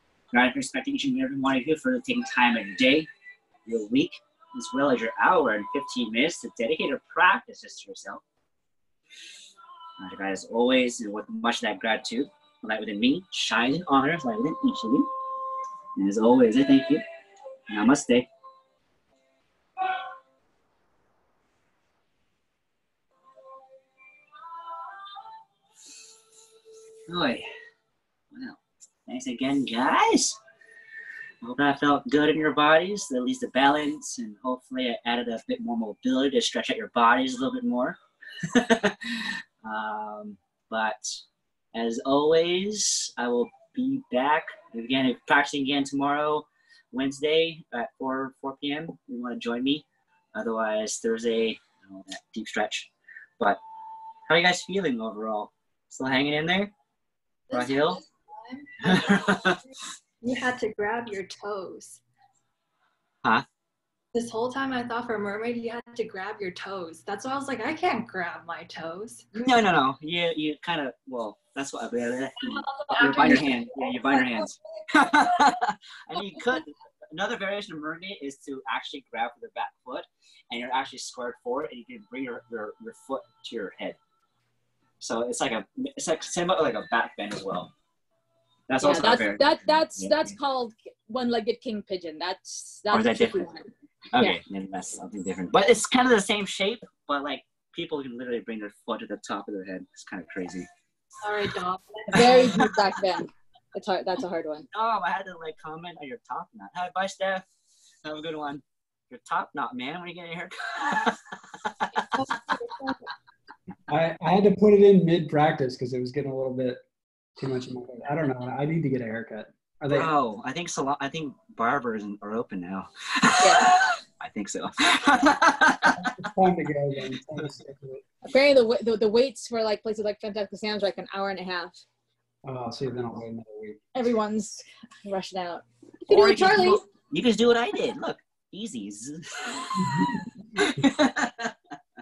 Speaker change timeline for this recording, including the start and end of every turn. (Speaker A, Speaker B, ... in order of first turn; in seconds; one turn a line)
Speaker A: 0.3-3.1
Speaker A: 3.6-8.2
Speaker A: 10.0-15.1
Speaker A: 15.9-17.0
Speaker A: 17.7-18.3
Speaker A: 27.1-27.4
Speaker A: 28.3-30.4
Speaker A: 31.4-41.2
Speaker A: 41.7-53.6
Speaker A: 54.3-56.7
Speaker B: 57.5-59.5
Speaker A: 57.5-58.0
Speaker A: 58.8-59.6
Speaker B: 60.2-62.0
Speaker B: 64.1-69.3
Speaker A: 69.3-84.0
Speaker C: 72.8-73.5
Speaker A: 85.0-87.7
Speaker A: 88.7-90.3
Speaker C: 88.8-94.4
Speaker A: 92.9-93.6
Speaker A: 94.1-100.7
Speaker B: 101.2-102.5
Speaker C: 102.1-104.7
Speaker A: 102.1-102.7
Speaker A: 104.7-107.5
Speaker A: 108.0-112.1
Speaker B: 112.1-113.1
Speaker D: 113.9-116.8
Speaker D: 117.4-120.1
Speaker A: 119.9-126.1
Speaker C: 123.4-123.7
Speaker D: 126.2-128.1
Speaker C: 128.2-131.8
Speaker D: 132.4-133.8
Speaker C: 133.9-136.8
Speaker A: 136.1-141.6